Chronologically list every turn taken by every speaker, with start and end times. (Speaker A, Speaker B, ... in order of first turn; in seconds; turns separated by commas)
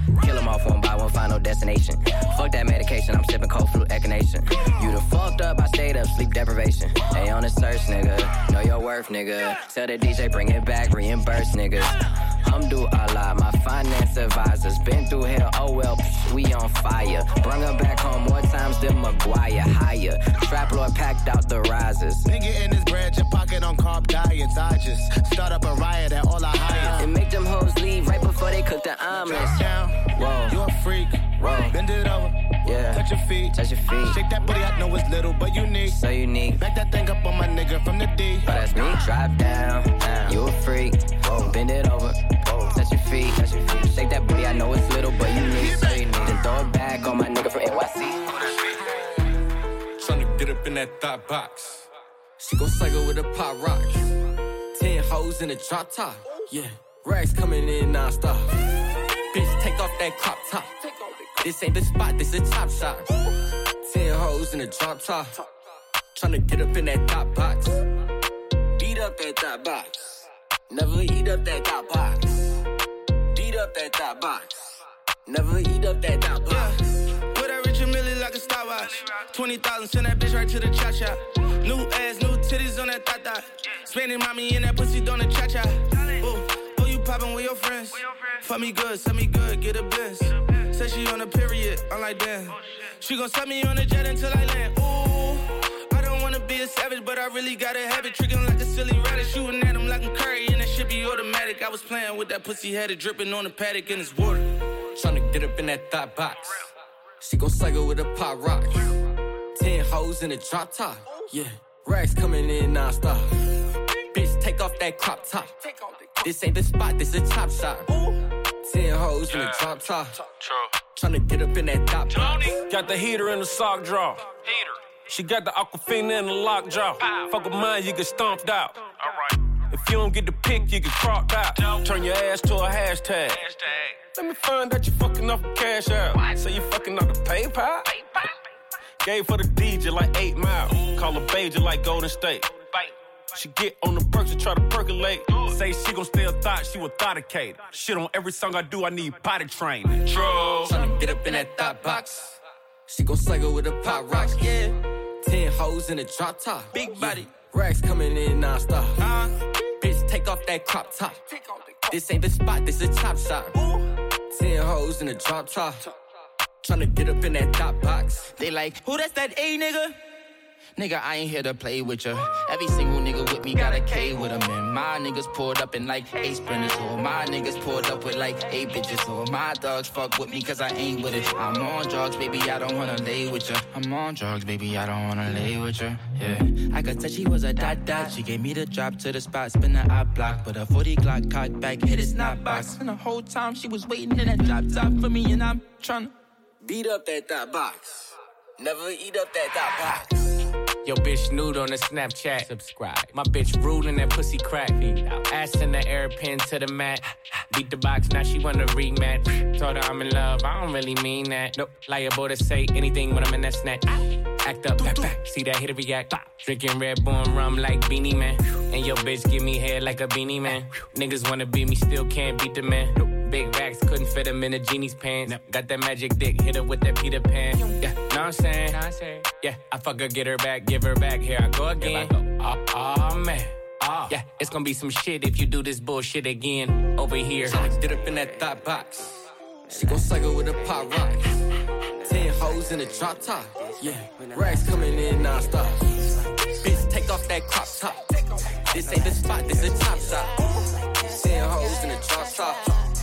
Speaker A: 0.2-22.2, Speaker B: 22.2-27.1, Speaker A: 26.8-29.6, Speaker B: 29.1-32.3, Speaker A: 30.1-30.5, Speaker A: 31.4-31.7, Speaker A: 32.6-33.0, Speaker B: 32.9-36.0, Speaker A: 33.5-34.1, Speaker A: 35.9-36.6, Speaker B: 36.6-38.5, Speaker A: 38.5-48.3, Speaker C: 50.0-51.8, Speaker C: 52.4-54.1, Speaker C: 54.7-58.5, Speaker C: 59.3-60.7, Speaker C: 61.4-63.1, Speaker C: 63.8-65.4, Speaker C: 66.1-67.8, Speaker C: 68.8-70.1, Speaker C: 71.7-72.3, Speaker C: 73.4-74.6, Speaker D: 77.4-81.1, Speaker D: 81.7-83.2, Speaker D: 86.2-90.2, Speaker D: 90.8-92.4, Speaker D: 93.1-95.3, Speaker D: 95.9-104.4, Speaker C: 104.9-106.7, Speaker C: 107.2-108.9, Speaker C: 109.5-113.3, Speaker C: 114.1-115.5, Speaker C: 116.2-117.9, Speaker C: 118.6-120.2, Speaker C: 120.9-122.5, Speaker E: 122.2-128.8, Speaker E: 129.7-138.2, Speaker E: 139.0-150.2, Speaker C: 150.6-152.2, Speaker C: 152.9-154.6, Speaker C: 155.2-159.0, Speaker C: 159.8-161.2, Speaker C: 161.9-163.6, Speaker C: 164.3-165.8, Speaker C: 166.6-168.3, Speaker F: 168.4-168.8, Speaker F: 170.8-192.8, Speaker A: 196.7-197.5, Speaker A: 199.1-199.4, Speaker G: 200.8-237.6, Speaker C: 237.4-239.2, Speaker C: 239.7-241.4, Speaker C: 242.0-245.8, Speaker C: 246.6-248.0, Speaker C: 248.7-250.3, Speaker C: 251.1-252.8